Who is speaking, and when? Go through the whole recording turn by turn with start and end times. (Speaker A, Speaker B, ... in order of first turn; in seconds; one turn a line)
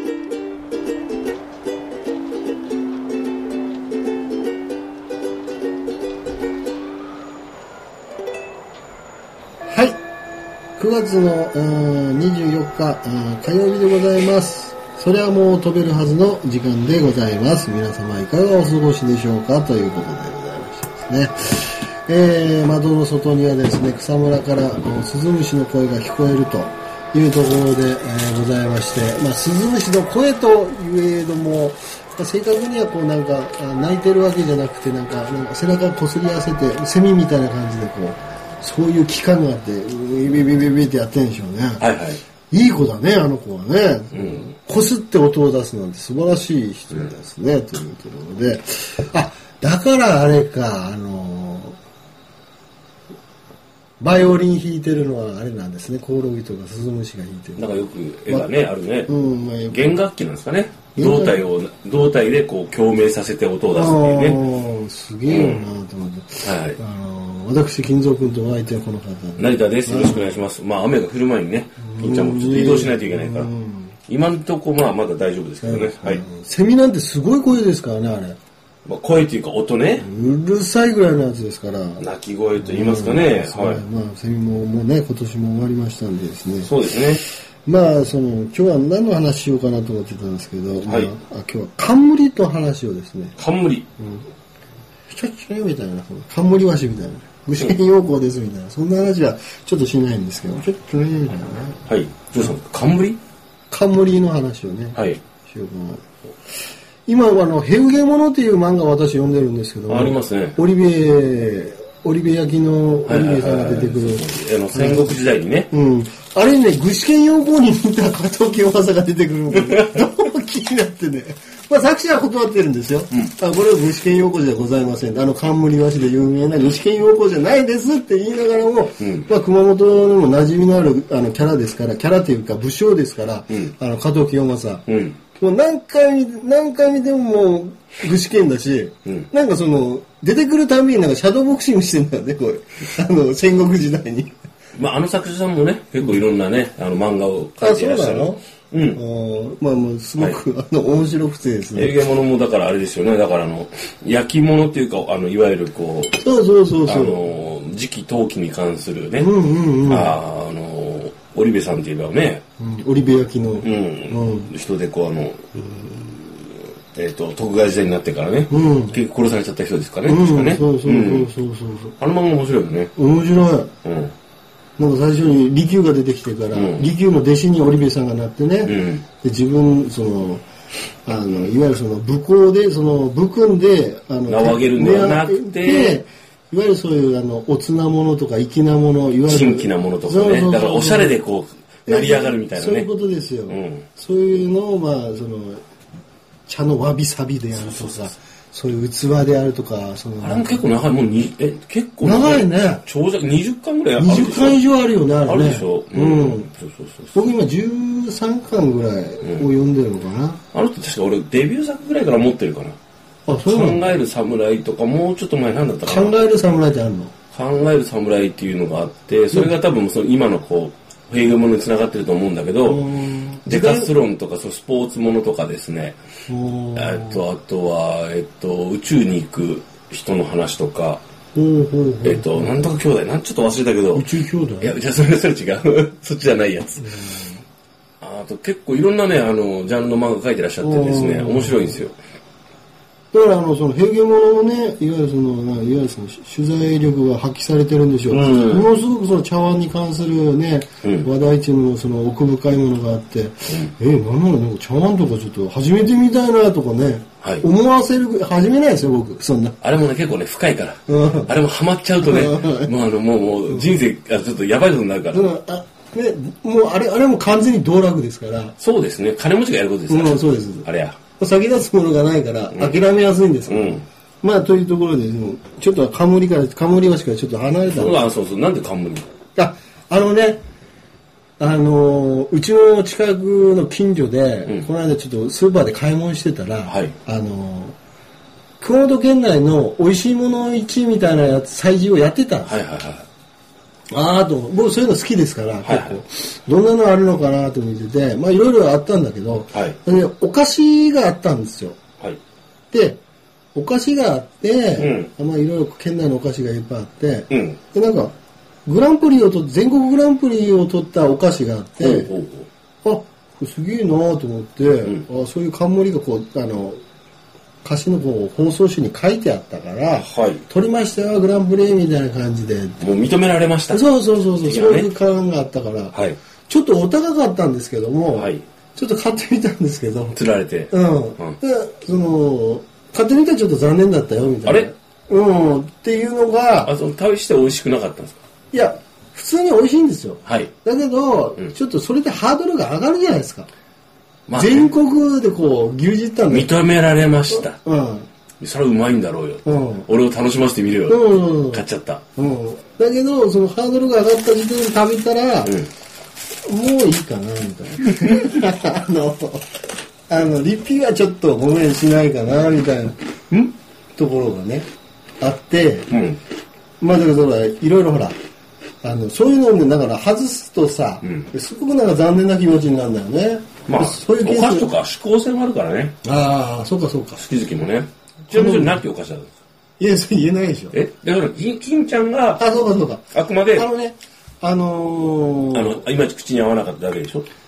Speaker A: 9.7-10.0
Speaker A: 10.8-41.9
Speaker B: 41.8-42.2
Speaker A: 42.5-51.8
Speaker B: 44.1-44.5
Speaker A: 54.0-57.7
Speaker B: 57.6-59.1
Speaker A: 59.1-60.0
Speaker B: 59.7-64.4
Speaker A: 61.0-61.4
Speaker A: 63.7-70.4
Speaker B: 65.3-65.7
Speaker B: 66.4-66.8
Speaker B: 69.4-73.5
Speaker A: 71.8-74.0
Speaker B: 74.1-76.2
Speaker A: 75.6-78.4
Speaker B: 78.9-80.1
Speaker A: 80.0-82.0
Speaker B: 82.0-83.8
Speaker A: 82.6-86.7
Speaker B: 86.6-87.2
Speaker A: 87.7-93.4
Speaker B: 90.9-91.1
Speaker B: 93.4-93.8
Speaker A: 94.0-94.3
Speaker A: 95.1-101.8
Speaker B: 101.9-103.2
Speaker A: 103.7-106.0
Speaker A: 107.1-144.3
Speaker B: 109.9-110.6
Speaker B: 113.1-115.7
Speaker B: 119.5-120.1
Speaker B: 129.0-129.3
Speaker B: 134.9-135.2
Speaker B: 144.8-149.0
Speaker A: 147.6-148.4
Speaker A: 148.9-151.9
Speaker B: 151.8-156.2
Speaker A: 156.2-157.2
Speaker B: 156.9-159.3
Speaker A: 159.2-160.2
Speaker B: 159.9-162.4
Speaker A: 162.6-164.5
Speaker B: 163.6-165.4
Speaker B: 166.2-171.3
Speaker A: 168.5-169.0
Speaker A: 170.1-171.9
Speaker B: 172.0-172.9
Speaker A: 173.0-173.7
Speaker B: 173.8-174.1
Speaker A: 174.8-180.4
Speaker B: 176.5-176.9
Speaker B: 178.6-179.0
Speaker A: 181.1-191.2
Speaker B: 184.3-186.0
Speaker B: 189.3-192.9
Speaker A: 191.9-195.6
Speaker B: 193.5-193.8
Speaker A: 196.5-200.7
Speaker B: 197.6-198.1
Speaker B: 200.2-204.6
Speaker A: 202.0-202.8
Speaker A: 204.0-206.5
Speaker B: 205.2-207.3
Speaker A: 207.1-210.4
Speaker B: 210.5-212.8
Speaker A: 213.3-213.9
Speaker B: 213.5-216.4
Speaker A: 215.8-217.1
Speaker B: 217.3-222.9
Speaker A: 222.6-223.9
Speaker B: 223.5-226.0
Speaker A: 226.3-227.2
Speaker B: 226.8-231.0
Speaker A: 231.3-232.6
Speaker B: 232.0-234.1
Speaker A: 233.9-234.8
Speaker B: 234.6-237.0
Speaker A: 236.8-237.4
Speaker B: 238.0-241.9
Speaker A: 240.6-241.8
Speaker A: 243.1-259.6
Speaker B: 248.1-248.7
Speaker B: 250.8-251.1
Speaker B: 259.6-265.3
Speaker A: 260.9-261.3
Speaker A: 262.0-262.7
Speaker A: 265.1-268.6
Speaker B: 268.6-271.0
Speaker A: 269.9-278.0
Speaker B: 272.5-272.8
Speaker B: 273.5-273.8
Speaker B: 277.7-279.1
Speaker A: 279.4-280.4
Speaker A: 281.4-287.8
Speaker B: 286.7-286.9
Speaker A: 288.6-292.6
Speaker B: 292.5-293.1
Speaker A: 293.9-301.8
Speaker B: 295.6-296.0
Speaker A: 302.7-303.0
Speaker A: 303.6-308.1
Speaker B: 304.8-305.1
Speaker B: 307.3-307.6
Speaker A: 308.7-312.1
Speaker B: 311.8-312.5
Speaker A: 312.8-316.8
Speaker A: 317.6-322.8
Speaker B: 320.0-320.4
Speaker B: 322.8-323.9
Speaker A: 323.7-326.0
Speaker B: 324.4-324.9
Speaker B: 325.9-326.2
Speaker A: 326.5-330.2
Speaker B: 328.1-328.4
Speaker B: 330.1-331.4
Speaker A: 330.7-336.8
Speaker B: 334.4-334.7
Speaker B: 336.6-338.2
Speaker A: 338.5-343.5
Speaker B: 340.3-340.5
Speaker B: 344.3-344.7
Speaker A: 344.4-346.5
Speaker B: 346.3-347.6
Speaker A: 347.3-348.1
Speaker B: 348.4-352.0
Speaker A: 349.4-349.9
Speaker A: 350.9-351.6
Speaker A: 352.2-355.6
Speaker A: 356.5-363.0
Speaker A: 363.9-364.7
Speaker A: 365.2-365.9
Speaker B: 365.9-366.2
Speaker A: 366.8-368.2
Speaker A: 368.8-374.7
Speaker B: 371.0-371.3
Speaker B: 373.7-376.0
Speaker A: 376.0-377.2
Speaker B: 377.2-379.3
Speaker A: 378.3-378.8
Speaker A: 379.8-380.8
Speaker B: 380.7-382.5
Speaker A: 382.4-385.8
Speaker B: 383.1-383.7
Speaker B: 385.5-387.3